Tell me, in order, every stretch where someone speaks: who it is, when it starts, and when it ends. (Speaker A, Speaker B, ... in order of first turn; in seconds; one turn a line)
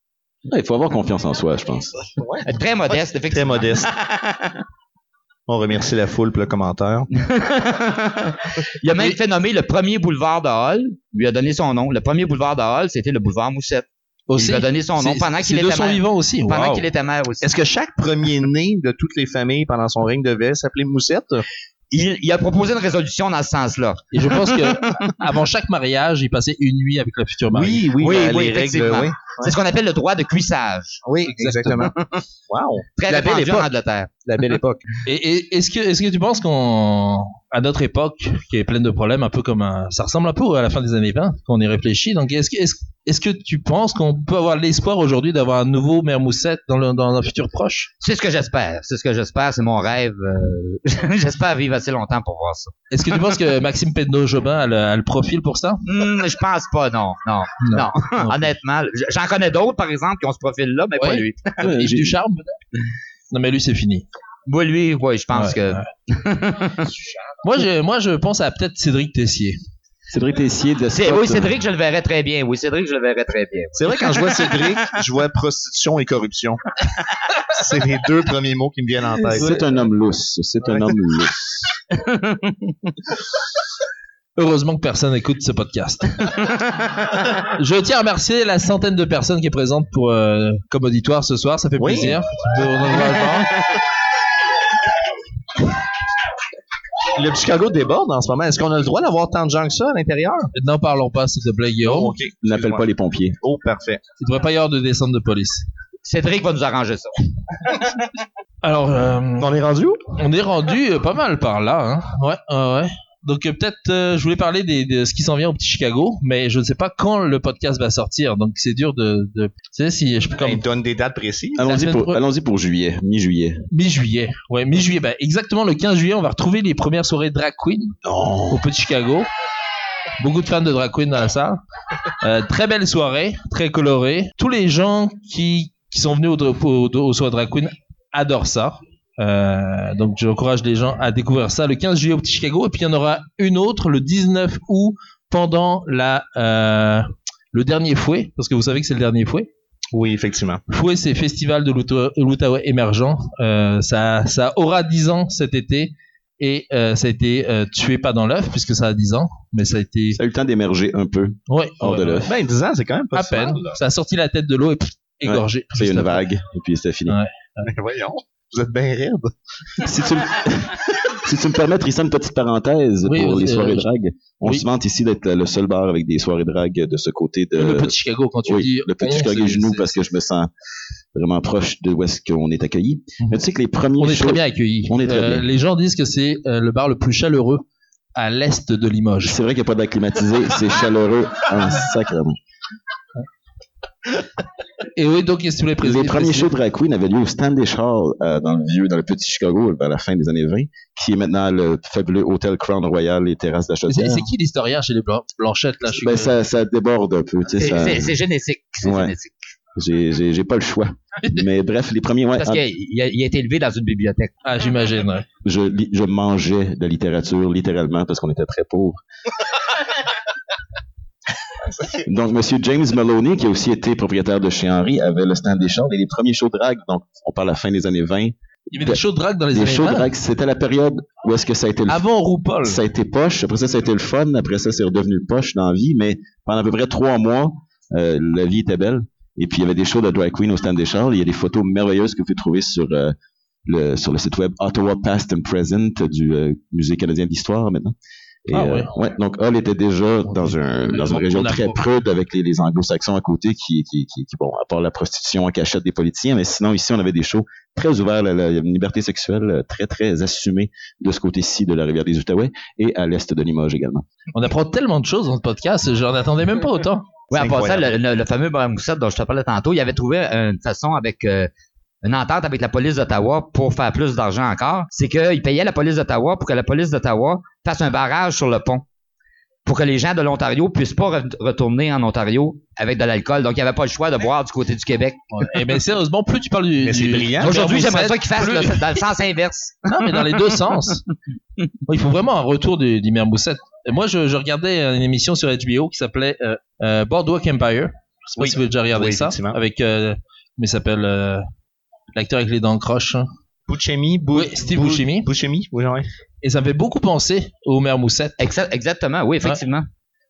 Speaker A: 0.5-2.0
Speaker B: 2.2-2.5
Speaker C: 2.5-4.5
Speaker B: 3.3-3.9
Speaker B: 5.5-7.1
Speaker C: 7.1-17.5
Speaker D: 14.3-16.9
Speaker B: 17.4-21.4
Speaker C: 21.9-24.1
Speaker D: 24.1-27.9
Speaker B: 27.5-29.5
Speaker C: 28.0-31.0
Speaker B: 31.1-31.9
Speaker D: 31.3-31.9
Speaker C: 31.9-32.2
Speaker B: 32.5-33.7
Speaker C: 33.0-34.1
Speaker B: 34.2-34.9
Speaker D: 35.1-47.9
Speaker C: 48.0-52.7
Speaker D: 52.9-55.8
Speaker C: 55.9-61.7
Speaker D: 57.6-58.5
Speaker D: 61.0-62.6
Speaker A: 61.7-62.2
Speaker D: 63.3-64.1
Speaker C: 64.5-66.9
Speaker D: 65.3-65.9
Speaker D: 67.4-69.6
Speaker A: 70.1-71.6
Speaker C: 70.9-74.0
Speaker B: 73.8-76.6
Speaker B: 77.5-79.5
Speaker D: 79.3-79.6
Speaker A: 79.3-81.6
Speaker C: 81.9-82.7
Speaker D: 84.4-86.4
Speaker D: 87.5-93.6
Speaker B: 91.8-92.2
Speaker B: 97.2-100.5
Speaker D: 100.5-102.2
Speaker B: 101.8-102.8
Speaker A: 102.4-103.4
Speaker B: 103.4-104.0
Speaker D: 104.2-105.7
Speaker C: 106.0-107.1
Speaker D: 108.6-109.5
Speaker B: 109.4-110.0
Speaker D: 110.1-120.6
Speaker B: 120.4-121.6
Speaker A: 121.6-123.6
Speaker D: 121.6-122.2
Speaker D: 123.7-128.0
Speaker A: 128.1-128.6
Speaker D: 128.5-129.3
Speaker D: 130.2-131.6
Speaker D: 132.2-149.5
Speaker B: 149.9-150.6
Speaker D: 150.7-160.2
Speaker A: 160.2-162.3
Speaker D: 161.5-162.3
Speaker B: 162.2-163.8
Speaker D: 163.1-166.2
Speaker A: 165.2-167.2
Speaker D: 167.1-167.7
Speaker B: 167.6-169.8
Speaker A: 169.8-177.9
Speaker D: 173.1-173.8
Speaker D: 177.6-180.0
Speaker A: 178.4-180.5
Speaker A: 181.1-185.5
Speaker D: 184.0-187.7
Speaker D: 188.2-189.4
Speaker A: 189.2-192.4
Speaker D: 195.0-196.5
Speaker A: 195.8-204.3
Speaker D: 203.9-206.3
Speaker A: 205.9-208.2
Speaker C: 207.6-209.3
Speaker A: 208.8-209.1
Speaker A: 209.8-212.6
Speaker C: 212.4-214.3
Speaker D: 214.4-215.3
Speaker A: 215.4-219.0
Speaker A: 222.0-229.0
Speaker D: 228.7-230.1
Speaker A: 229.5-232.0
Speaker D: 231.9-232.8
Speaker A: 232.6-243.2
Speaker A: 243.7-247.9
Speaker A: 248.5-264.1
Speaker D: 248.5-248.9
Speaker D: 250.3-251.8
Speaker D: 264.3-267.1
Speaker C: 267.3-271.5
Speaker B: 267.3-267.9
Speaker C: 272.0-278.8
Speaker C: 279.7-285.2
Speaker D: 285.3-289.0
Speaker B: 286.8-287.8
Speaker C: 287.4-289.8
Speaker D: 289.9-291.0
Speaker D: 291.9-301.4
Speaker B: 298.4-299.6
Speaker D: 302.1-303.3
Speaker B: 303.7-306.1
Speaker D: 304.3-305.3
Speaker D: 306.4-308.4
Speaker C: 308.4-309.9